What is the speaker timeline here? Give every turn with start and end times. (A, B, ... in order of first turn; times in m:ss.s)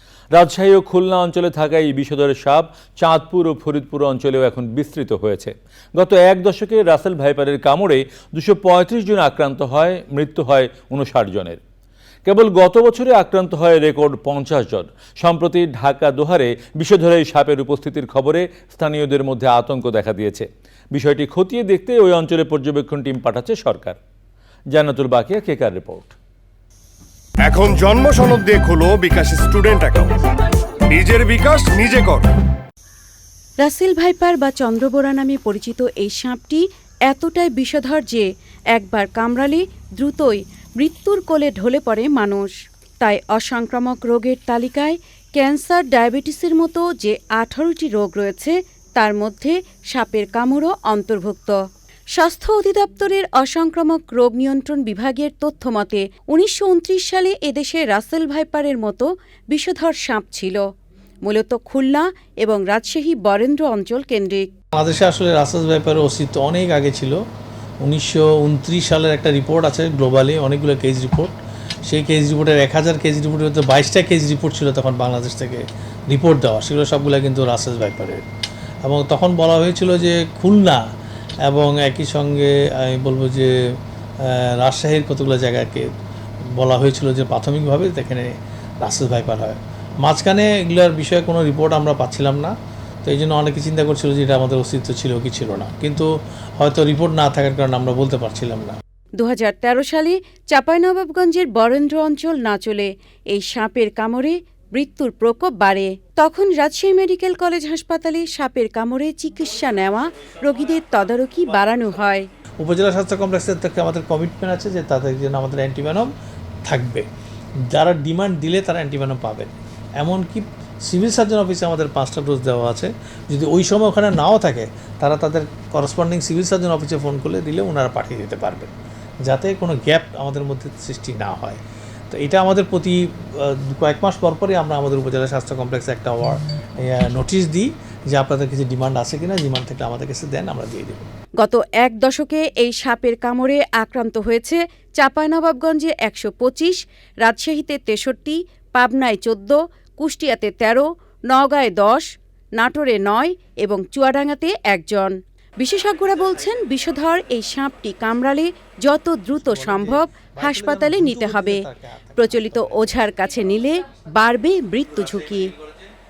0:00.3-0:11.6 A
0:12.2-0:24.0 A
0:24.7-0:26.1 A
0:27.4-0:30.2 B
0:30.9-0:32.3 B
0:33.6-0:51.6 C
0:52.1-1:00.6 C
1:01.2-1:04.5 C
1:04.7-1:07.2 D
1:07.8-1:11.3 D
1:11.9-1:18.2 D
1:18.8-1:20.8 D
1:21.4-1:25.8 D
1:26.6-1:38.7 D
1:39.2-1:52.3 C
1:52.6-1:56.1 D
1:56.6-1:57.0 D
1:57.7-2:08.7 D
2:09.2-2:11.6 D
2:12.1-2:21.0 D
2:21.4-2:41.6 C
2:39.4-2:43.0 D
2:42.2-2:45.5 C